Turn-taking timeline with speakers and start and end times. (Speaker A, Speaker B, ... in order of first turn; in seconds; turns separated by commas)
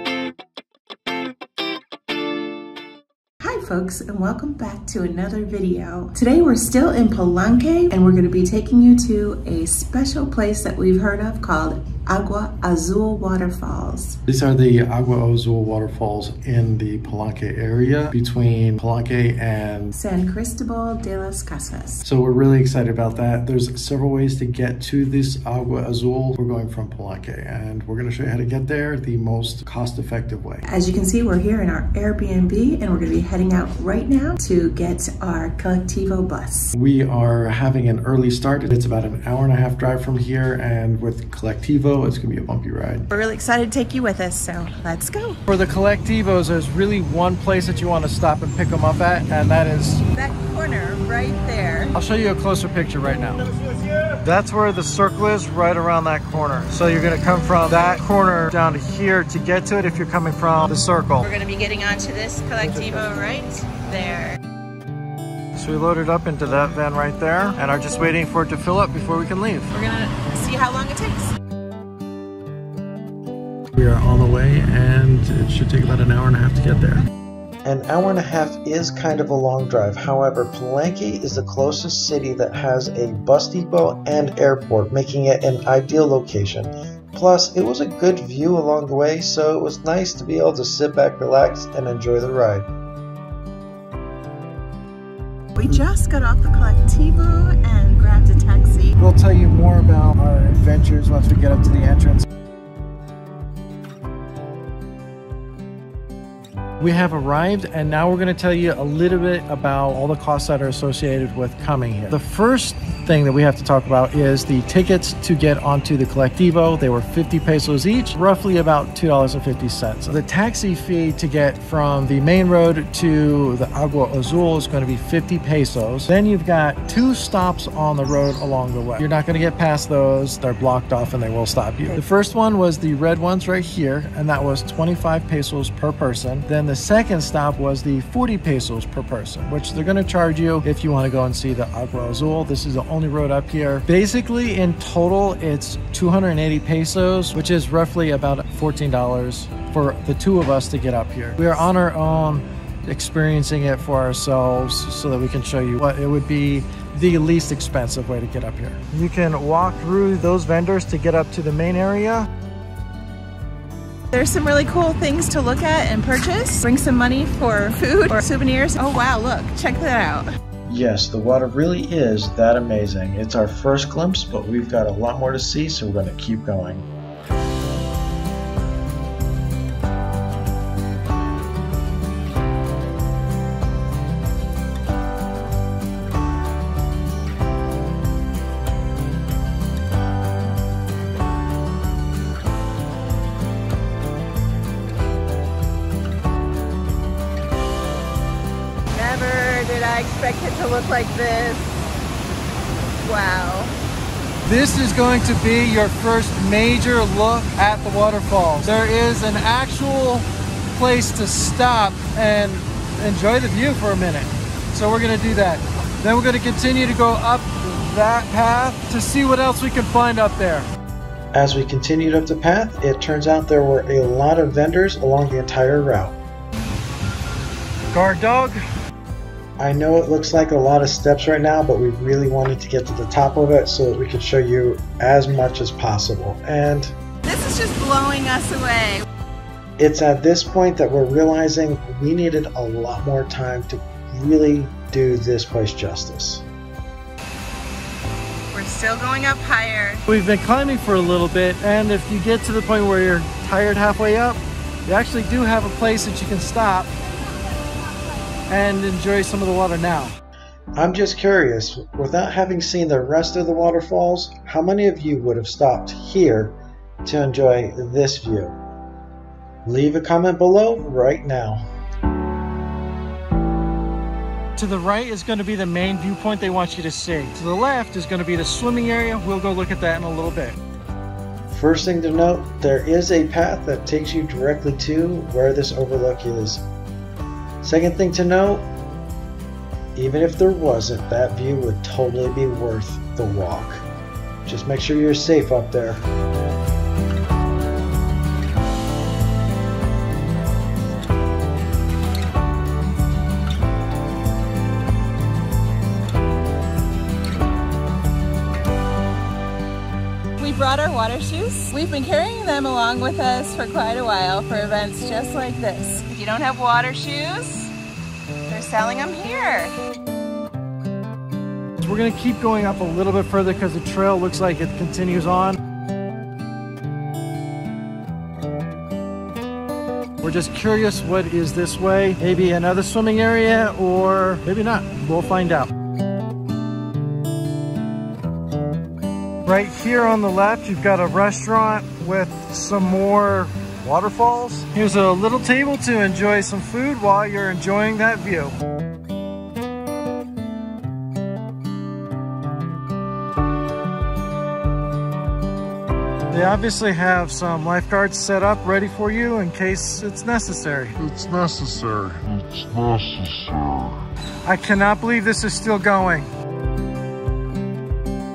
Speaker A: 3.4-14.2, Speaker B: 14.3-19.9, Speaker A: 19.9-22.0, Speaker B: 22.1-30.6, Speaker A: 30.7-36.7, Speaker B: 36.7-43.1, Speaker A: 43.1-45.4, Speaker B: 45.5-50.0, Speaker A: 50.1-52.0, Speaker B: 52.0-53.4, Speaker B: 54.2-61.3, Speaker A: 61.2-64.4, Speaker B: 62.6-63.1, Speaker B: 65.5-69.7, Speaker A: 69.7-71.3, Speaker B: 73.8-77.0, Speaker C: 77.7-92.7, Speaker A: 95.6-98.9, Speaker B: 99.0-102.3, Speaker B: 106.8-162.3, Speaker A: 164.1-170.3, Speaker C: 170.7-176.8, Speaker A: 198.9-201.8, Speaker A: 203.0-203.8, Speaker B: 204.4-220.7, Speaker C: 221.3-226.2, Speaker B: 227.9-228.6, Speaker C: 229.6-236.9, Speaker A: 237.2-239.1, Speaker C: 239.8-246.4, Speaker A: 248.5-250.0, Speaker B: 250.1-256.9, Speaker B: 258.5-260.2, Speaker C: 260.8-268.6, Speaker C: 269.7-271.6, Speaker B: 274.6-280.6, Speaker C: 281.5-286.6, Speaker C: 287.6-288.7, Speaker C: 290.0-293.8, Speaker C: 294.5-296.0, Speaker B: 294.5-294.8, Speaker A: 310.4-317.7, Speaker A: 318.5-319.8, Speaker B: 321.8-325.6, Speaker B: 330.2-335.7, Speaker B: 339.4-348.6, Speaker B: 356.3-361.6, Speaker D: 361.1-363.9, Speaker B: 364.4-366.3